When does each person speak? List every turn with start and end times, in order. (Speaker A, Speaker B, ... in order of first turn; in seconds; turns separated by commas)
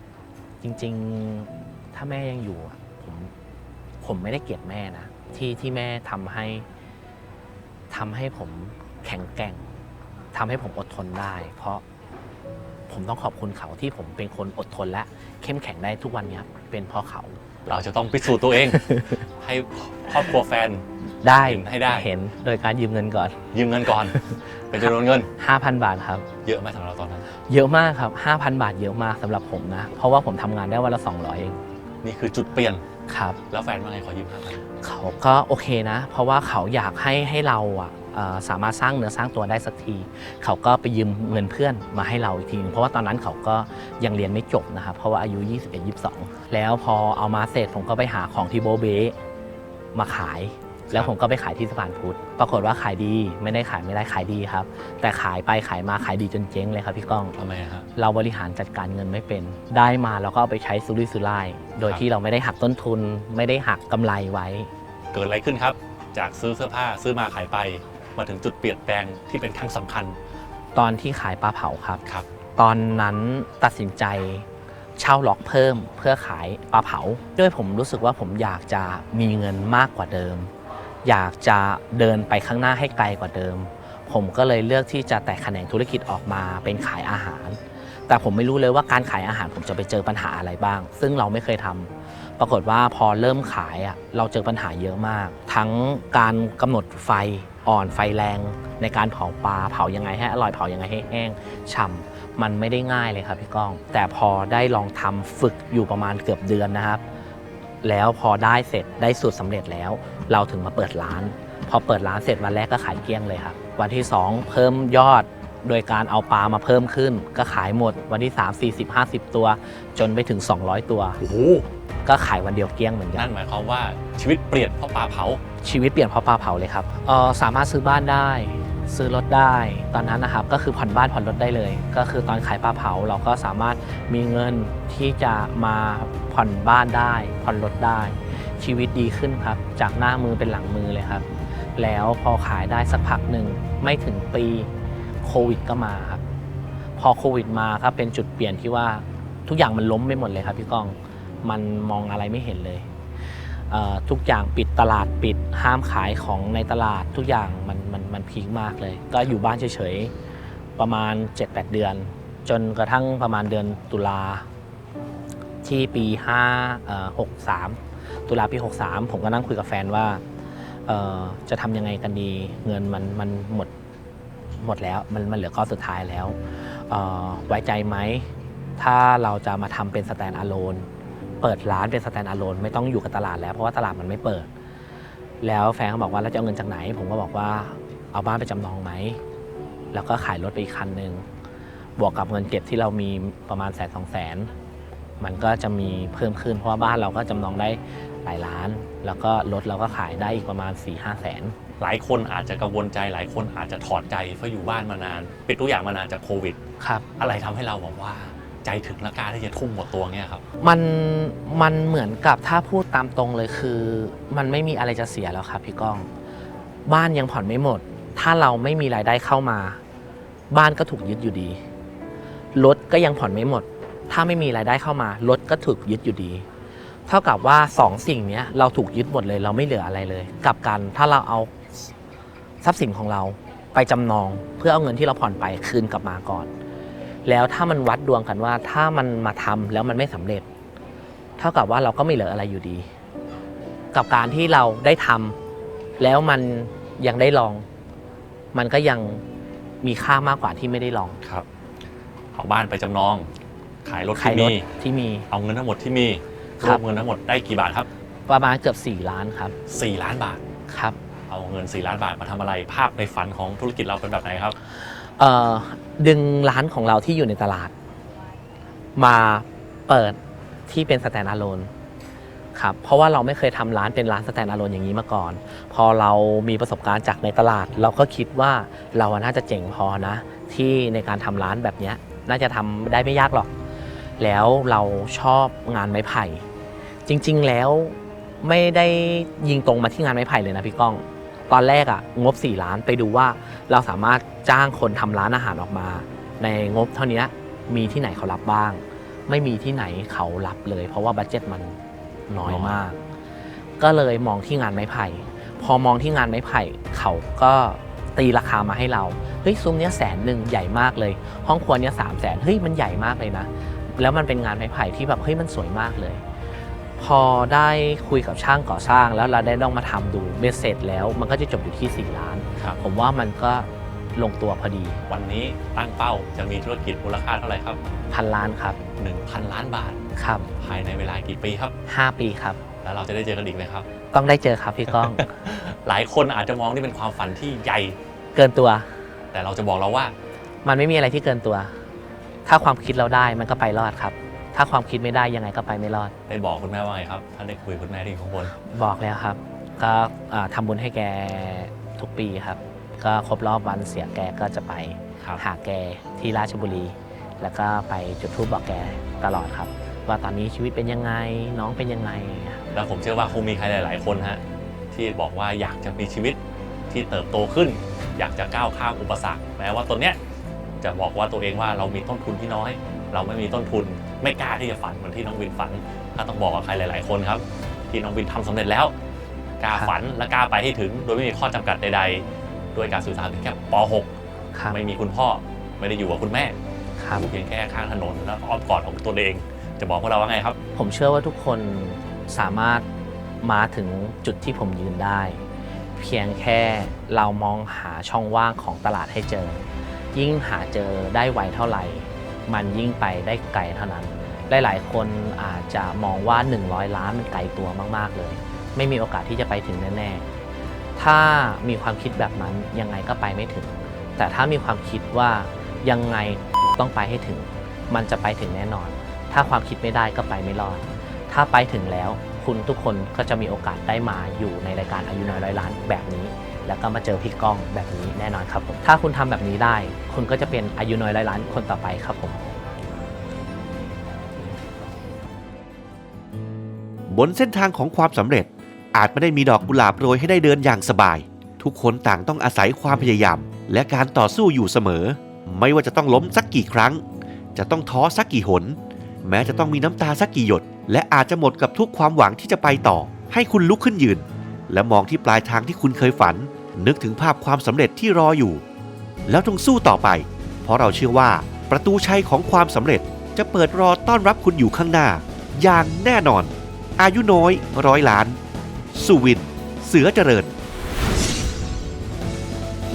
Speaker A: 0.6-3.3, Speaker A: 4.0-6.7, Speaker A: 7.9-9.7, Speaker A: 10.3-11.8, Speaker A: 12.9-17.4, Speaker B: 17.7-20.8, Speaker A: 18.7-19.2, Speaker A: 21.2-23.4, Speaker B: 21.4-22.1, Speaker B: 23.5-25.3, Speaker A: 25.4-26.3, Speaker B: 26.4-27.3, Speaker A: 27.5-31.6, Speaker B: 32.0-32.8, Speaker A: 33.1-33.4, Speaker B: 33.5-34.6, Speaker A: 34.8-49.1, Speaker A: 49.9-57.4, Speaker B: 57.4-57.9, Speaker A: 58.0-64.7, Speaker B: 65.1-70.2, Speaker A: 70.8-72.0, Speaker A: 72.6-80.5, Speaker A: 81.0-107.0, Speaker A: 107.8-121.2, Speaker B: 121.2-121.7, Speaker A: 122.0-123.3, Speaker B: 123.1-125.4, Speaker A: 125.6-144.7, Speaker A: 145.2-146.2, Speaker A: 147.0-152.9, Speaker A: 153.7-160.1, Speaker A: 160.8-164.5, Speaker A: 165.6-170.2, Speaker A: 170.9-173.7, Speaker A: 174.6-180.9, Speaker A: 181.4-184.5, Speaker A: 185.4-189.2, Speaker A: 189.9-191.2, Speaker A: 192.0-194.5, Speaker A: 195.2-201.6, Speaker B: 201.8-206.6, Speaker A: 206.8-207.1, Speaker B: 207.2-210.4, Speaker A: 210.6-216.1, Speaker A: 216.9-219.8, Speaker A: 220.5-221.6, Speaker A: 222.6-226.5, Speaker A: 227.1-231.5, Speaker A: 232.6-236.5, Speaker A: 237.3-240.5, Speaker A: 241.4-242.9, Speaker A: 243.9-245.4, Speaker A: 246.0-247.7, Speaker A: 248.5-249.2, Speaker A: 249.8-251.2, Speaker B: 252.3-253.3, Speaker B: 253.8-254.7, Speaker A: 254.2-255.3, Speaker B: 255.3-257.9, Speaker A: 258.3-259.6, Speaker B: 259.7-260.4, Speaker A: 260.7-261.0, Speaker B: 261.3-264.6, Speaker A: 264.8-267.7, Speaker A: 269.0-271.7, Speaker A: 272.6-283.5, Speaker A: 284.2-286.5, Speaker A: 287.1-303.0, Speaker B: 302.5-302.8, Speaker A: 303.8-316.2, Speaker A: 317.0-325.0, Speaker B: 325.1-327.8, Speaker A: 328.1-328.8, Speaker B: 329.0-330.0, Speaker A: 330.2-330.5, Speaker B: 330.6-331.7, Speaker A: 331.9-332.6, Speaker B: 332.8-333.9, Speaker A: 334.1-335.3, Speaker B: 334.9-338.0, Speaker A: 338.4-338.9, Speaker B: 339.3-340.1, Speaker A: 340.6-341.8, Speaker A: 342.5-346.1, Speaker B: 346.3-348.6, Speaker A: 348.6-362.6, Speaker B: 362.7-364.4, Speaker B: 364.9-366.4, Speaker B: 366.9-370.2, Speaker B: 370.8-378.9, Speaker B: 379.6-382.2, Speaker B: 382.8-384.1, Speaker B: 384.7-386.6, Speaker A: 387.0-387.3, Speaker B: 387.1-390.6, Speaker A: 390.8-392.9, Speaker A: 393.4-395.5, Speaker A: 396.0-410.3, Speaker A: 411.0-432.5, Speaker C: 437.1-447.0, Speaker C: 447.6-458.6, Speaker C: 459.3-468.4, Speaker C: 468.9-470.5